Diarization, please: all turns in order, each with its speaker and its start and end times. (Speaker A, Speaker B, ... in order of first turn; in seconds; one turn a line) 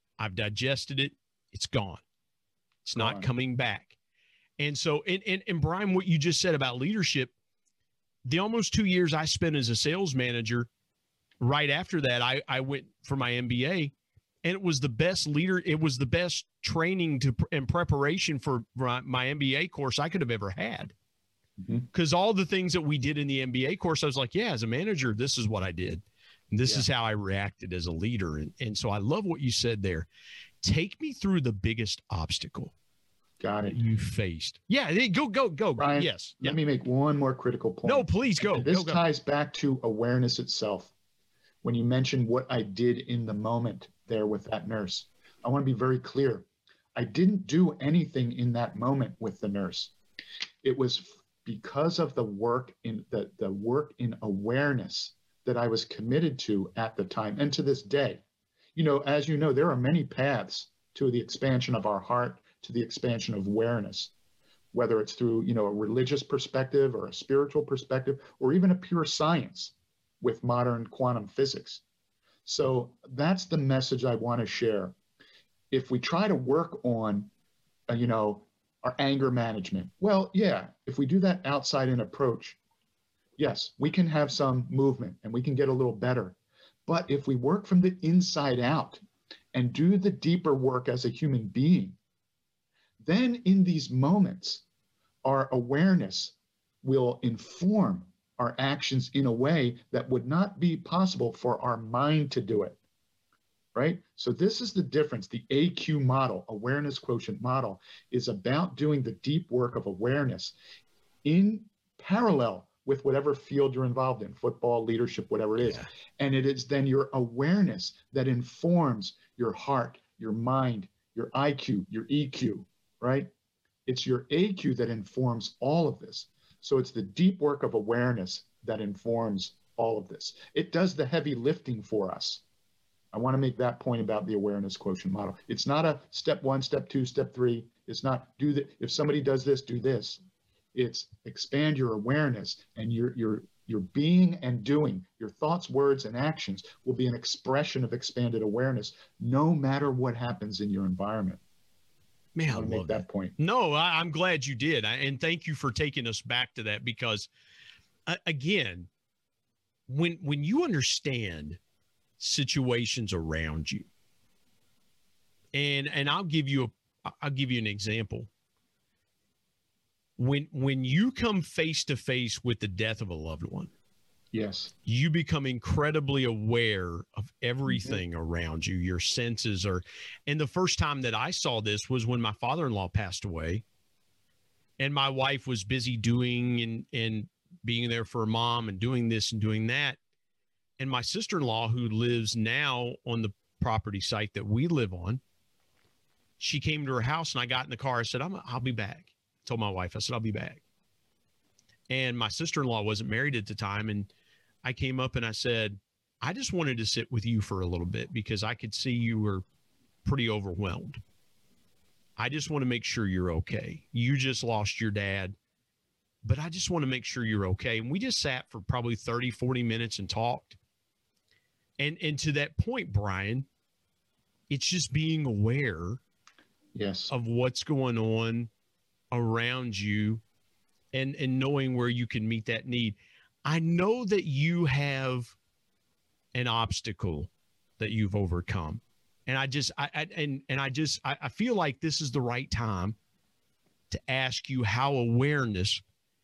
Speaker A: 0.2-2.0
Speaker A: 2.8-4.0
Speaker B: 3.0-3.3
Speaker A: 4.6-7.3
Speaker A: 8.2-10.7
Speaker A: 11.4-13.9
Speaker A: 14.4-20.9
Speaker B: 21.6-21.9
Speaker A: 21.9-30.1
Speaker A: 30.6-32.7
Speaker B: 33.4-33.8
Speaker A: 33.7-36.6
Speaker B: 35.8-40.9
Speaker A: 37.8-39.0
Speaker B: 41.6-49.9
Speaker B: 50.6-58.2
Speaker B: 58.7-64.1
Speaker B: 64.7-71.8
Speaker B: 72.4-75.0
Speaker B: 75.7-77.3
Speaker B: 77.9-82.6
Speaker B: 83.4-92.0
Speaker B: 93.0-94.6
Speaker B: 95.2-102.8
Speaker B: 103.7-110.5
Speaker B: 111.2-123.3
Speaker A: 115.6-115.9
Speaker B: 123.8-132.4
Speaker B: 133.1-140.2
Speaker B: 140.7-151.4
Speaker A: 152.3-157.3
Speaker B: 152.5-153.3
Speaker A: 158.1-158.9
Speaker A: 159.9-161.6
Speaker A: 162.2-163.9
Speaker A: 165.5-168.3
Speaker A: 170.2-173.7
Speaker B: 174.3-174.7
Speaker A: 174.8-183.6
Speaker B: 177.7-178.0
Speaker A: 184.8-190.0
Speaker A: 190.8-195.2
Speaker A: 196.4-200.6
Speaker A: 201.9-204.1
Speaker A: 204.6-209.4
Speaker A: 210.0-211.0
Speaker A: 212.2-215.3
Speaker A: 216.2-220.6
Speaker A: 221.8-223.5
Speaker A: 224.5-226.0
Speaker B: 226.7-227.1
Speaker A: 227.1-228.5
Speaker A: 229.1-230.2
Speaker A: 230.9-235.3
Speaker A: 236.3-242.9
Speaker A: 243.9-245.8